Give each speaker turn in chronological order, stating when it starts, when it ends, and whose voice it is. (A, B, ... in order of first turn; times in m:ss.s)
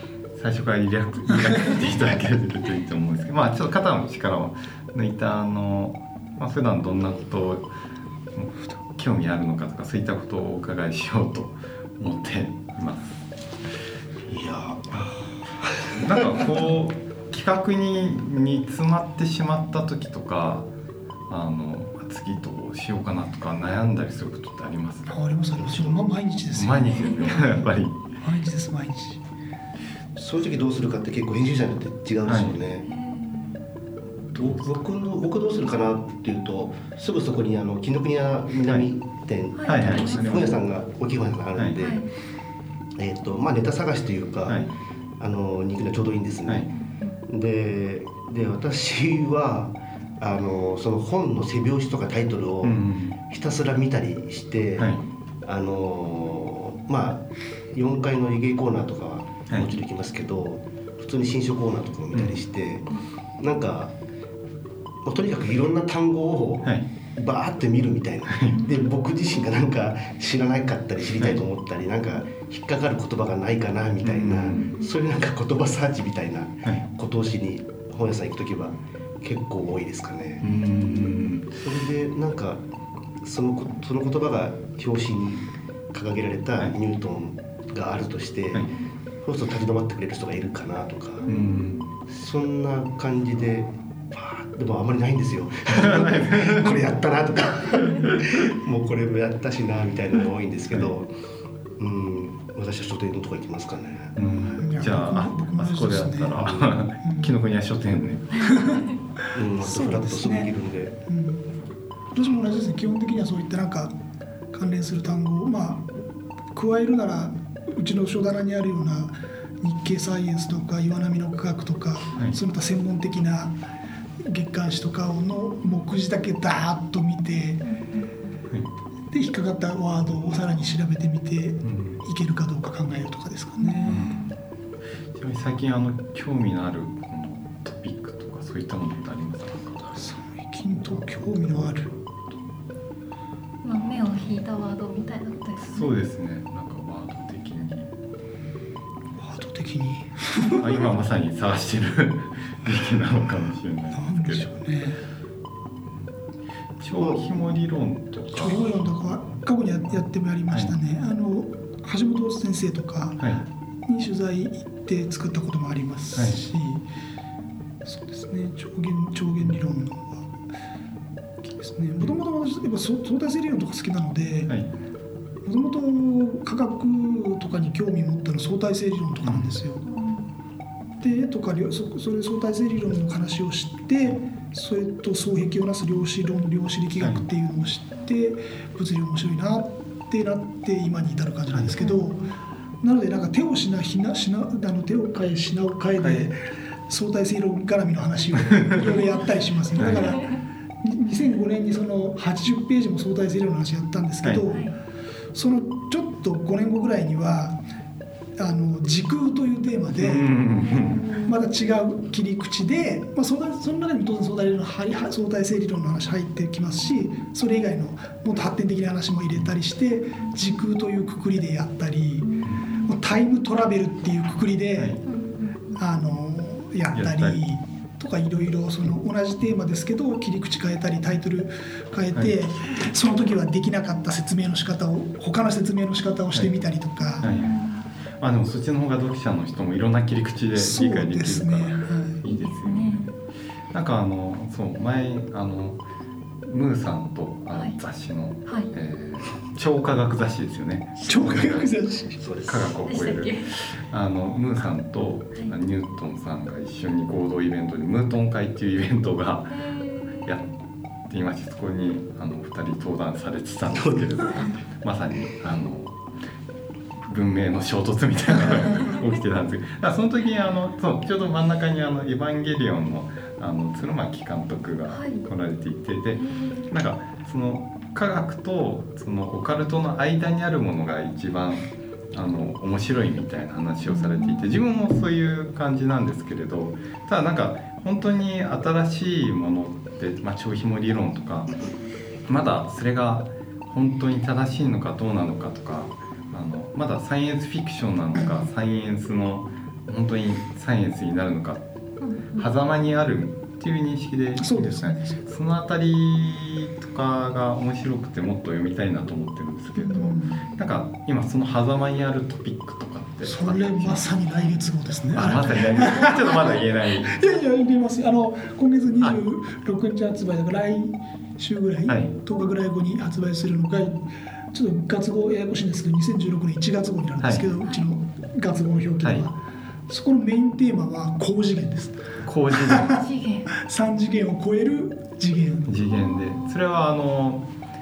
0:00.3-0:07.7 A
0:08.3-0:13.2 A
0:14.3-0:16.5 B
0:16.0-0:20.7 A
0:21.3-0:25.1 A
0:25.1-0:27.3 C
0:25.6-0:26.1 B
0:26.5-0:28.0 A
0:26.8-0:27.6 D
0:28.2-0:29.2 C
0:30.1-0:32.9 B
0:32.2-0:32.5 A
0:32.8-0:33.6 D
0:34.3-0:42.0 B
0:39.6-0:40.6 D
0:39.6-0:40.5 A
0:41.8-0:42.1 D
0:43.0-0:44.7 B
0:45.2-0:46.7 B
0:46.7-0:47.2 D
0:47.3-1:03.9 B
0:52.6-0:53.2 A
0:54.8-0:55.0 A
1:05.0-1:20.5 B
1:08.3-1:08.6 A
1:08.5-1:08.8 D
1:14.0-1:14.7 A
1:14.4-1:14.9 D
1:20.4-1:21.6 A
1:20.4-1:21.4 D
1:21.6-1:22.6 B
1:23.2-1:31.3 B
1:31.2-1:31.8 D
1:31.2-1:31.9 A
1:32.1-1:41.1 B
1:35.7-1:36.8 A
1:41.8-1:44.2 B
1:44.2-1:48.4 A
1:44.6-1:47.3 C
1:48.4-1:48.8 C
1:48.4-1:48.8 D
1:49.3-1:51.0 B
1:49.6-1:50.5 C
1:51.0-1:51.4 C
1:52.1-1:53.9 C
1:54.5-1:56.0 C
1:56.5-2:03.6 C
2:04.2-2:07.6 C
2:07.6-2:08.4 D
2:09.1-2:14.0 C
2:10.1-2:10.4 A
2:11.6-2:12.0 A
2:13.6-2:14.3 D
2:13.8-2:14.2 A
2:15.1-2:20.1 A
2:20.0-2:21.9 C
2:20.7-2:22.4 A
2:23.6-2:25.9 D
2:25.6-2:27.9 A
2:29.2-2:30.8 C
2:30.4-2:34.5 A
2:33.9-2:35.0 C
2:36.8-2:39.4 A
2:37.0-2:37.5 B
2:38.3-2:43.2 C
2:43.9-2:46.8 C
2:46.1-2:46.4 A
2:47.8-2:50.3 C
2:51.4-2:54.5 C
2:55.4-2:59.8 C
2:59.2-2:59.6 A
2:59.8-3:00.3 D
3:01.0-3:12.2 C
3:11.5-3:11.8 A
3:11.8-3:12.3 D
3:12.8-3:20.2 C
3:16.0-3:16.3 A
3:19.8-3:20.4 D
3:19.8-3:20.2 A
3:20.8-3:24.6 C
3:24.5-3:24.8 D
3:25.3-3:27.6 C
3:28.4-3:30.2 C
3:30.0-3:31.1 A
3:30.5-3:31.4 D
3:31.2-3:42.3 C
3:42.4-3:42.7 A
3:42.8-3:45.0 C
3:45.0-3:45.8 D
3:45.7-3:57.3 C
3:46.9-3:47.4 A
3:57.0-3:57.9 D
3:57.2-3:57.6 A
3:58.2-4:03.0 A
4:00.5-4:02.2 C
4:02.2-4:03.1 D
4:03.7-4:05.8 A
4:06.4-4:11.7 A
4:11.0-4:12.2 C
4:12.2-4:12.8 B
4:12.4-4:19.6 A
4:12.9-4:13.5 D
4:19.5-4:20.4 D
4:21.1-4:26.0 A
4:23.7-4:24.1 B
4:27.0-4:51.6 A
4:34.9-4:35.2 D
4:36.2-4:36.7 D
4:43.9-4:44.6 D
4:52.3-5:01.6 A
5:02.0-5:02.5 D
5:02.3-5:14.1 A
5:04.4-5:05.2 C
5:09.7-5:10.4 C
5:13.2-5:29.3 C
5:15.1-5:17.2 A
5:21.9-5:22.1 A
5:27.2-5:27.5 A
5:27.6-5:27.9 D
5:29.9-5:32.0 C
5:32.2-5:33.0 A
5:32.5-5:32.9 C
5:32.8-5:33.5 D
5:33.5-5:35.7 C
5:35.7-5:37.5 A
5:35.8-5:36.6 D